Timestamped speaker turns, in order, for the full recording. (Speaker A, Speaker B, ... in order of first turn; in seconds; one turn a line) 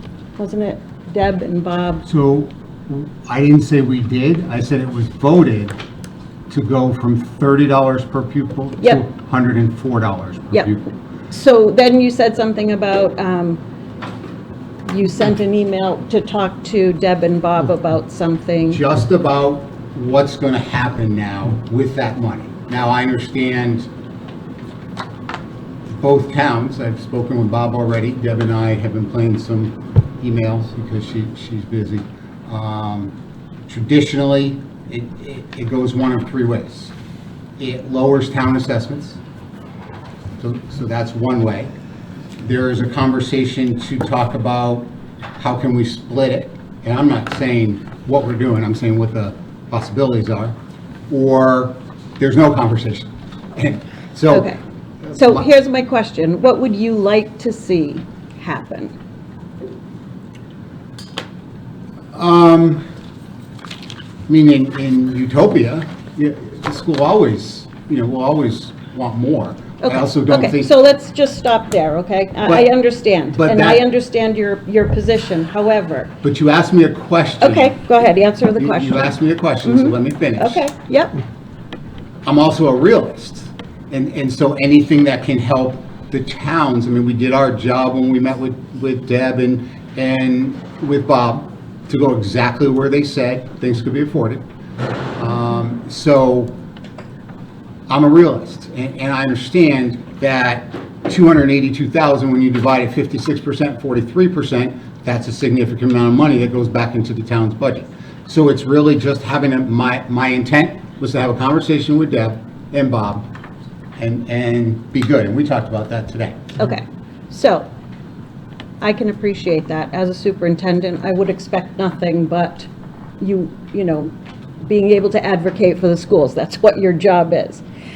Speaker A: 0.4-2.1
Speaker B: 2.0-5.8
Speaker B: 6.5-10.9
Speaker A: 8.8-9.1
Speaker A: 11.3-13.6
Speaker A: 14.9-18.8
Speaker B: 18.7-23.9
Speaker B: 25.9-33.1
Speaker B: 33.7-36.9
Speaker B: 37.6-39.2
Speaker B: 40.4-41.7
Speaker B: 42.4-50.6
Speaker B: 51.1-54.5
Speaker A: 54.3-54.6
Speaker B: 55.1-55.5
Speaker A: 55.1-58.9
Speaker B: 62.1-62.8
Speaker B: 64.3-70.7
Speaker A: 69.8-76.1
Speaker B: 73.3-73.8
Speaker B: 76.2-77.8
Speaker A: 77.4-81.1
Speaker B: 78.6-80.7
Speaker B: 82.2-94.4
Speaker B: 95.2-96.6
Speaker B: 97.9-113.3
Speaker B: 114.0-116.6
Speaker A: 116.6-117.7
Speaker A: 118.8-122.7
Speaker A: 123.2-124.1
Speaker A: 124.6-127.6